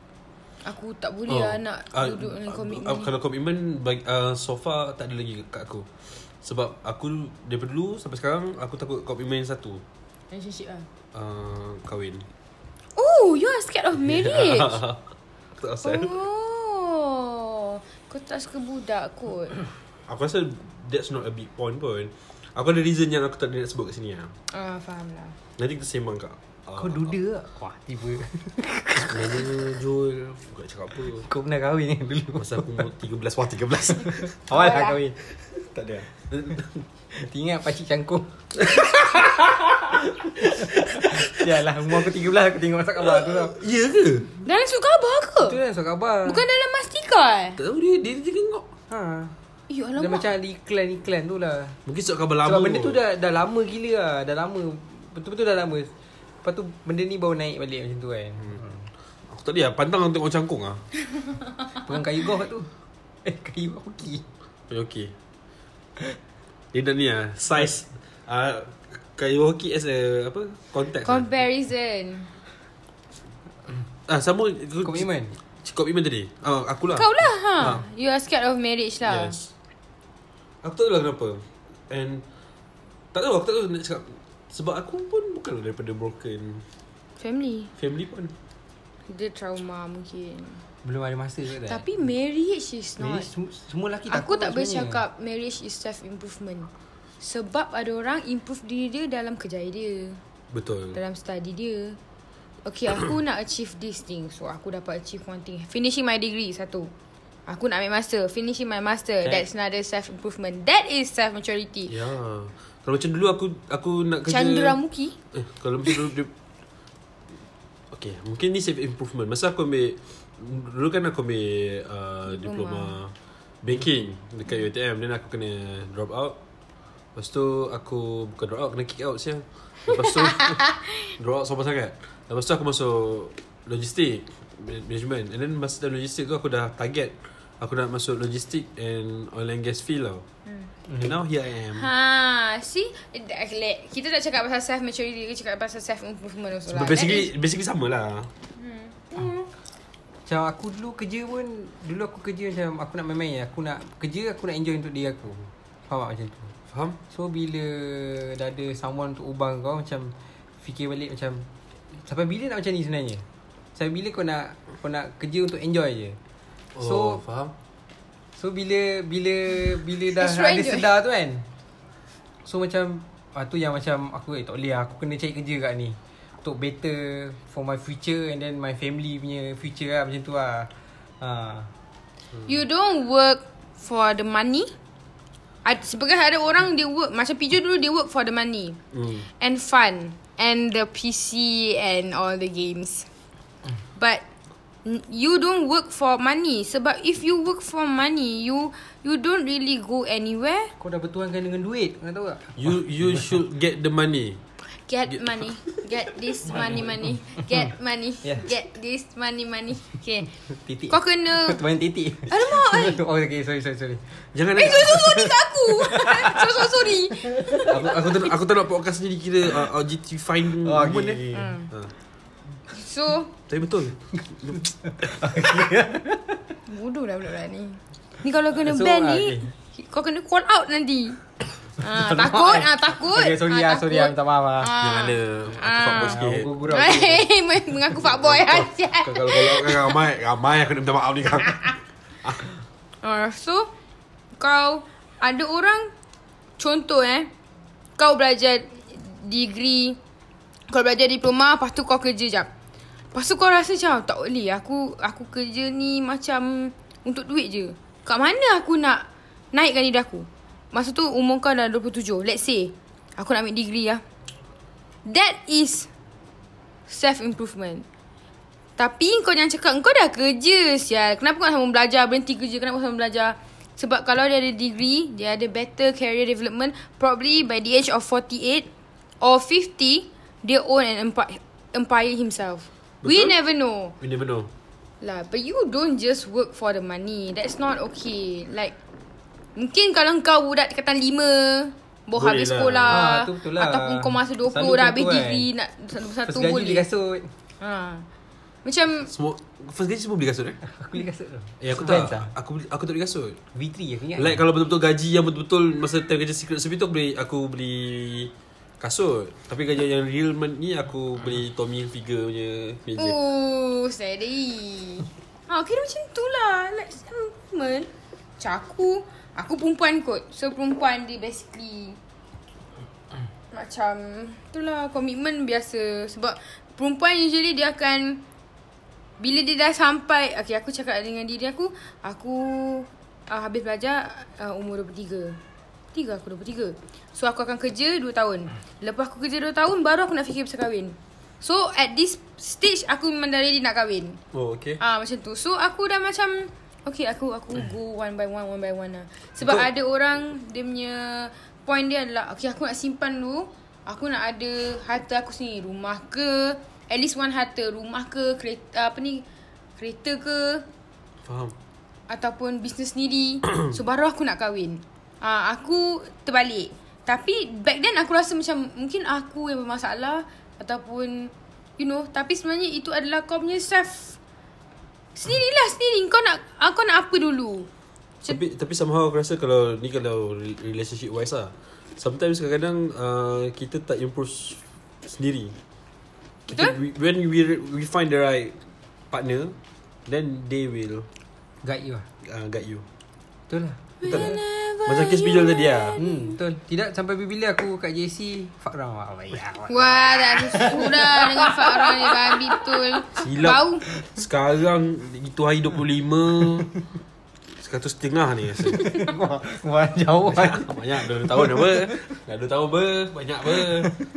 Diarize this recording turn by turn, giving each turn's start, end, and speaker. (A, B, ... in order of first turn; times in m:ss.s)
0:00.6-0:03.1 A
0:01.3-0:05.9 B
0:06.4-0:09.8 B
0:10.3-0:10.9 A
0:11.1-0:12.2 B
0:13.0-0:14.8 A
0:14.0-0:15.0 B
0:15.6-0:16.2 B
0:15.8-0:19.6 A
0:20.1-0:24.3 B
0:24.5-0:25.3 A
0:25.6-0:27.1 B
0:26.8-0:29.6 C
0:29.1-0:31.2 B
0:31.2-0:32.8 C
0:32.4-0:34.6 B
0:34.1-0:35.2 C
0:34.5-0:35.0 A
0:35.5-0:36.8 B
0:37.1-0:38.6 C
0:38.6-0:41.4 B
0:40.2-0:43.6 C
0:43.2-0:44.3 B
0:44.4-0:45.6 A
0:45.4-0:46.4 C
0:46.2-0:47.6 A
0:47.6-0:48.6 B
0:48.9-0:49.3 C
0:49.7-0:50.3 A
0:50.0-0:51.8 C
0:51.8-0:53.0 B
0:52.4-0:55.9 C
0:56.4-0:58.8 C
0:59.3-1:00.8 B
1:01.7-1:02.7 C
1:03.2-1:04.2 C
1:04.7-1:05.1 B
1:06.7-1:11.3 B
1:11.0-1:12.3 A
1:14.1-1:15.1 B
1:14.8-1:15.3 C
1:15.6-1:17.8 B
1:16.9-1:19.4 A
1:19.0-1:19.5 B
1:20.6-1:22.2 B
1:23.1-1:26.6 B
1:27.2-1:27.7 A
1:27.8-1:28.3 B
1:29.1-1:30.6 A
1:30.8-1:31.8 C
1:31.6-1:33.3 A
1:33.0-1:35.0 C
1:34.1-1:36.7 A
1:37.2-1:40.2 A
1:40.5-1:41.0 B
1:40.9-1:42.0 A
1:42.6-1:46.9 A
1:47.5-1:51.9 A
1:51.9-1:54.8 B
1:54.3-1:55.2 A
1:55.3-1:56.3 B
1:57.9-2:06.4 B
2:02.3-2:03.0 A
2:07.1-2:20.2 B
2:09.9-2:10.9 A
2:21.0-2:21.8 B
2:21.7-2:27.3 A
2:26.7-2:28.3 B
2:28.6-2:29.5 A
2:30.2-2:36.5 C
2:36.7-2:37.0 B
2:37.1-2:41.5 C
2:42.0-2:46.2 C
2:46.7-2:47.5 B
2:46.8-2:47.2 C
2:48.4-2:51.5 C
2:50.1-2:50.9 A
2:52.4-3:01.7 C
3:02.4-3:04.7 A
3:05.6-3:13.1 A
3:08.9-3:09.2 B
3:14.0-3:14.2 A
3:14.8-3:20.7 A
3:20.8-3:22.7 C
3:22.6-3:24.4 B
3:24.7-3:30.3 A
3:26.4-3:26.8 B
3:28.2-3:28.5 C
3:30.5-3:34.2 C
3:30.9-3:31.6 A
3:32.3-3:33.0 A
3:34.3-3:35.0 B
3:34.5-3:38.3 A
3:34.9-3:37.8 C
3:37.6-3:41.9 B
3:40.6-3:41.5 C
3:41.3-3:41.7 A
3:42.7-3:43.3 A
3:43.5-3:45.2 B
3:45.0-3:46.5 C
3:46.7-3:51.2 A
3:48.6-3:49.5 C
3:51.8-4:00.0 A
3:51.9-3:54.7 C
3:54.8-3:56.5 B
3:55.9-3:57.3 C
3:58.0-4:02.5 B
4:03.0-4:03.7 A
4:04.4-4:05.9 A
4:06.6-4:07.3 A
4:08.0-4:10.0 A
4:10.7-4:12.5 A
4:13.1-4:24.0 A
4:25.0-4:25.9 A
4:26.9-4:27.8 A
4:28.8-4:38.7 A
4:39.2-4:43.9 A
4:43.0-4:43.3 B
4:44.0-4:44.5 B
4:45.0-4:48.7 A
4:49.6-4:56.8 A
4:52.2-4:53.0 B
4:52.9-4:55.5 C
4:56.2-4:57.3 C
4:57.6-4:58.1 A
4:58.6-4:59.1 A
4:59.1-5:00.6 B
5:00.7-5:02.3 C
5:01.6-5:03.4 B
5:03.5-5:04.4 C
5:04.2-5:13.2 B
5:13.0-5:22.0 A
5:23.5-5:28.2 A
5:29.2-5:35.4 A
5:35.9-5:44.2 A
5:44.3-5:44.8 B
5:44.8-5:59.2 A
5:49.4-5:49.7 B
5:59.8-6:00.6 A
6:01.2-6:01.5 B
6:02.1-6:14.2 A
6:15.1-6:17.7 A
6:18.3-6:25.6 B
6:26.5-6:28.6 B
6:26.5-6:26.7 A
6:29.1-6:29.5 B
6:30.1-6:31.1 B
6:31.6-6:32.1 C
6:32.2-6:32.8 B
6:33.5-6:34.3 C
6:34.0-6:36.4 A
6:34.0-6:36.0 B
6:36.0-6:42.9 C
6:39.7-6:43.8 A
6:43.2-6:46.7 B
6:47.6-6:49.1 B
6:48.6-6:52.0 C
6:50.2-6:54.0 B